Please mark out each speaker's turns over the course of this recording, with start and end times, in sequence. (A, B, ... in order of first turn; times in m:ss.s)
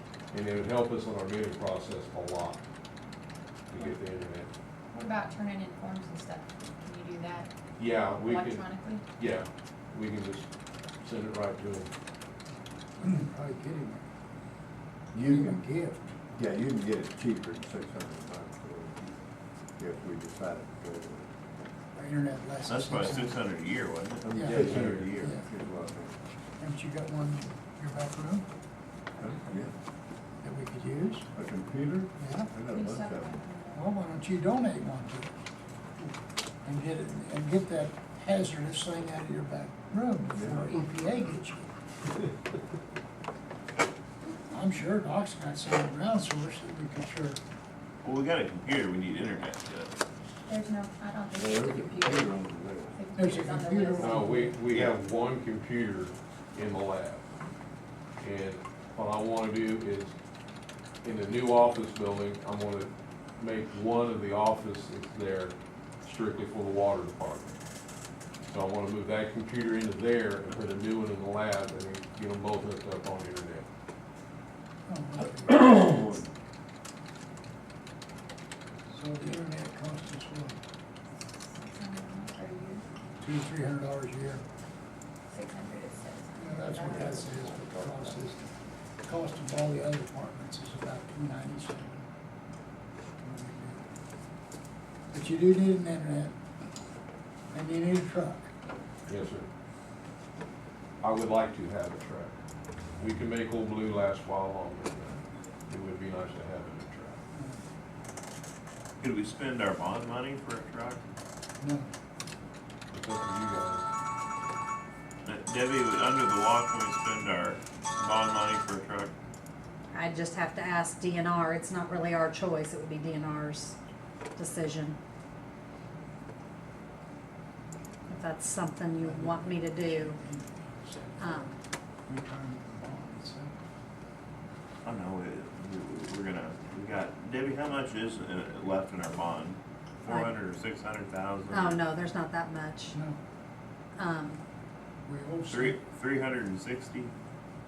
0:00.3-0:02.6 A
0:03.7-0:04.5 A
0:04.9-0:07.5 B
0:07.8-0:08.6 A
0:08.2-0:09.0 B
0:09.2-0:10.5 A
0:11.0-0:11.9 A
0:13.0-0:14.0 C
0:15.1-0:15.6 D
0:15.2-0:16.2 C
0:16.3-0:19.2 D
0:19.8-0:21.3 D
0:22.0-0:23.4 C
0:22.7-0:25.3 E
0:24.2-0:26.2 D
0:24.3-0:25.5 C
0:24.5-0:25.1 A
0:26.6-0:28.5 C
0:29.2-0:29.7 D
0:30.4-0:31.3 C
0:31.3-0:33.4 D
0:32.2-0:32.5 C
0:32.7-0:33.8 B
0:33.7-0:35.3 C
0:36.6-0:41.6 C
0:40.3-0:41.1 D
0:44.5-0:47.4 C
0:48.0-0:50.0 E
0:50.5-0:52.4 B
0:51.3-0:53.1 D
0:53.0-0:54.4 B
0:53.2-0:54.6 C
0:54.0-0:57.2 A
0:58.2-1:00.2 A
1:01.0-1:07.6 A
1:08.5-1:13.7 A
1:14.9-1:16.2 C
1:18.9-1:20.6 C
1:21.5-1:22.8 B
1:23.2-1:24.4 C
1:25.3-1:28.1 B
1:26.4-1:28.5 C
1:29.0-1:32.0 C
1:33.2-1:33.8 C
1:35.1-1:36.4 C
1:37.5-1:38.5 C
1:39.1-1:39.5 A
1:41.0-1:42.4 A
1:43.0-1:47.2 A
1:49.0-1:51.0 E
1:51.6-1:51.9 C
1:52.9-1:53.9 A
1:55.2-1:59.1 E
1:59.9-2:03.8 F
2:04.4-2:05.0 F
2:08.1-2:10.2 F
2:09.0-2:13.5 C
2:11.2-2:11.5 F
2:14.8-2:21.9 E
2:21.5-2:23.0 F
2:22.9-2:23.2 C
2:24.0-2:24.4 F
2:25.1-2:25.8 C
2:25.5-2:27.1 E